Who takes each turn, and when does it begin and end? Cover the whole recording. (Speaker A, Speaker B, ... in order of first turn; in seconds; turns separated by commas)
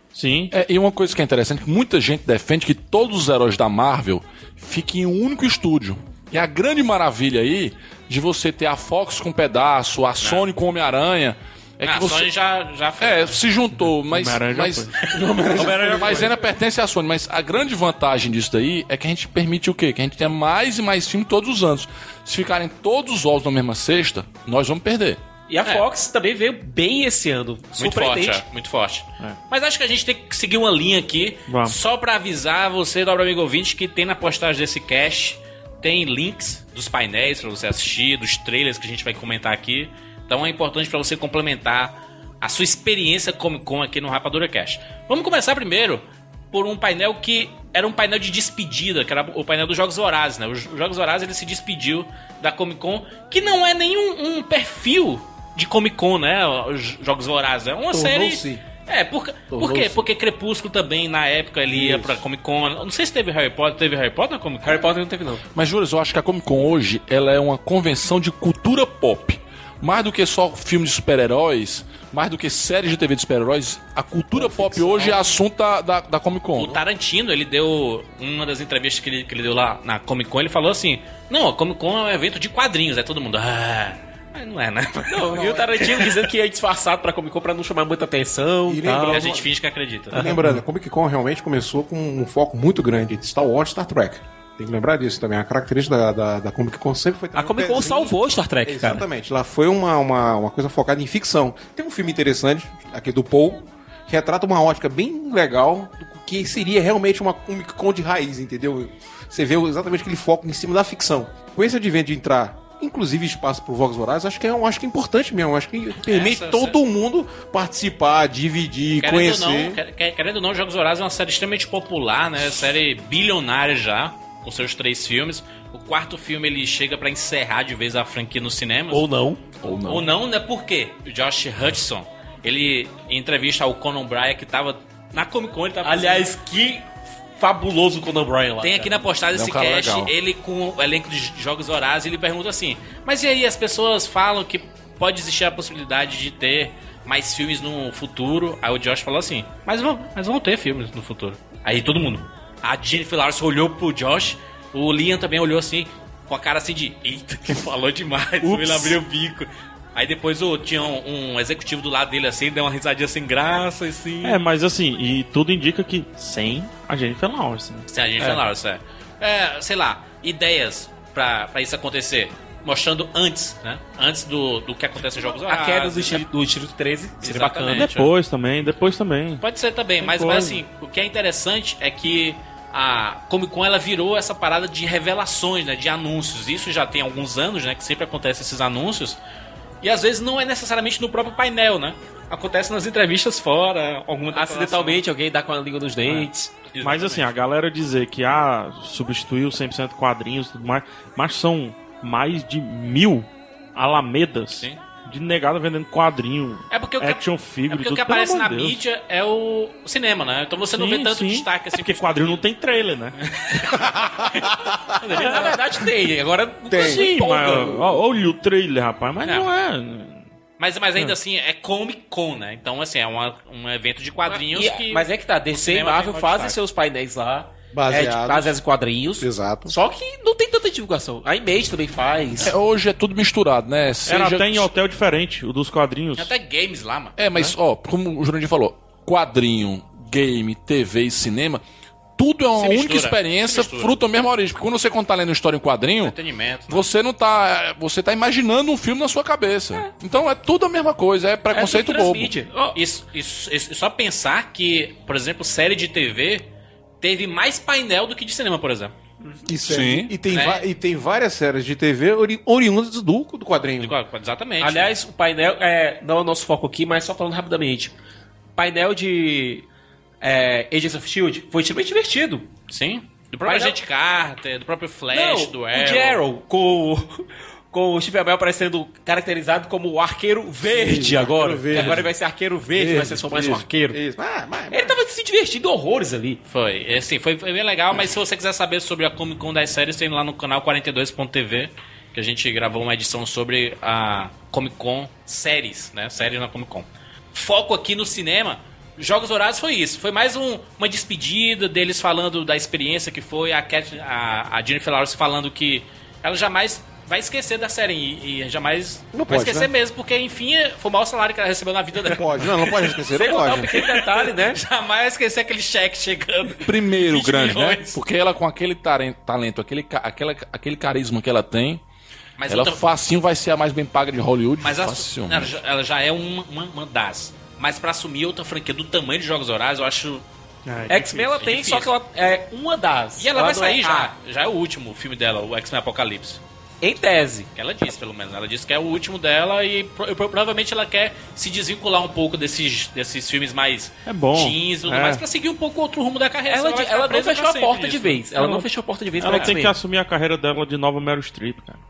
Speaker A: 0.1-0.5, Speaker B: 0.5-12.3, Speaker C: 11.8-13.4, Speaker B: 13.0-14.9, Speaker A: 14.0-14.9, Speaker D: 15.1-16.3, Speaker B: 15.5-25.2, Speaker E: 15.6-16.4, Speaker E: 25.5-28.4, Speaker C: 27.8-64.8, Speaker A: 31.5-31.8, Speaker D: 57.9-58.6, Speaker D: 59.5-60.0, Speaker D: 61.7-62.2, Speaker E: 64.6-65.4, Speaker B: 65.5-76.8, Speaker E: 74.3-75.2, Speaker C: 76.6-86.0, Speaker E: 85.1-89.3, Speaker D: 85.2-85.9, Speaker D: 88.7-89.5, Speaker C: 88.9-90.2, Speaker E: 90.1-90.6, Speaker D: 90.1-119.8, Speaker E: 97.3-99.0, Speaker C: 116.0-116.8, Speaker C: 119.0-129.1, Speaker E: 128.9-129.4, Speaker B: 129.6-130.1, Speaker C: 129.8-136.3, Speaker E: 135.8-138.9, Speaker C: 138.6-164.4, Speaker B: 139.3-140.1, Speaker A: 158.4-159.0, Speaker A: 164.2-167.9, Speaker C: 167.9-176.3, Speaker E: 175.4-177.9, Speaker C: 177.2-178.1, Speaker A: 177.7-179.4, Speaker C: 179.4-189.2, Speaker A: 180.0-180.6, Speaker C: 189.8-195.0, Speaker E: 194.3-196.5, Speaker C: 196.7-197.3, Speaker A: 196.8-208.8, Speaker C: 206.7-212.4, Speaker A: 210.7-213.2, Speaker C: 213.2-215.6, Speaker D: 213.7-214.9, Speaker E: 215.1-217.9, Speaker A: 215.2-215.5, Speaker D: 216.7-217.6, Speaker A: 216.8-220.2, Speaker C: 219.2-219.5, Speaker C: 220.6-226.6, Speaker E: 224.2-232.5, Speaker D: 227.7-228.5, Speaker D: 229.2-229.7, Speaker B: 232.4-234.7, Speaker A: 234.1-236.3, Speaker C: 236.2-237.2, Speaker B: 237.2-241.6, Speaker B: 242.2-246.2, Speaker C: 242.6-244.0, Speaker C: 246.0-246.9, Speaker B: 246.7-252.3, Speaker E: 251.5-252.8, Speaker C: 252.7-256.5, Speaker C: 257.0-258.9, Speaker E: 259.2-259.5, Speaker D: 259.4-263.9, Speaker B: 259.6-260.1, Speaker C: 260.3-260.6, Speaker C: 263.8-264.9, Speaker E: 264.6-267.9, Speaker E: 268.6-269.7, Speaker E: 270.2-272.5, Speaker C: 272.7-276.2, Speaker E: 273.4-273.8, Speaker E: 275.1-284.0, Speaker D: 280.6-282.1, Speaker C: 281.7-282.0, Speaker D: 282.7-285.0, Speaker E: 284.7-286.4, Speaker C: 286.5-318.0, Speaker D: 309.1-309.7, Speaker D: 312.0-313.8, Speaker E: 313.1-314.6, Speaker B: 316.6-321.8, Speaker C: 322.4-322.8, Speaker B: 322.5-325.6, Speaker C: 324.6-330.2, Speaker A: 330.6-331.4, Speaker E: 330.9-334.1, Speaker C: 331.4-331.9, Speaker C: 333.2-336.4, Speaker E: 336.8-337.5, Speaker C: 337.5-348.2, Speaker A: 344.1-345.2, Speaker E: 346.5-349.8, Speaker A: 348.3-348.7, Speaker A: 349.2-351.8, Speaker C: 349.3-349.5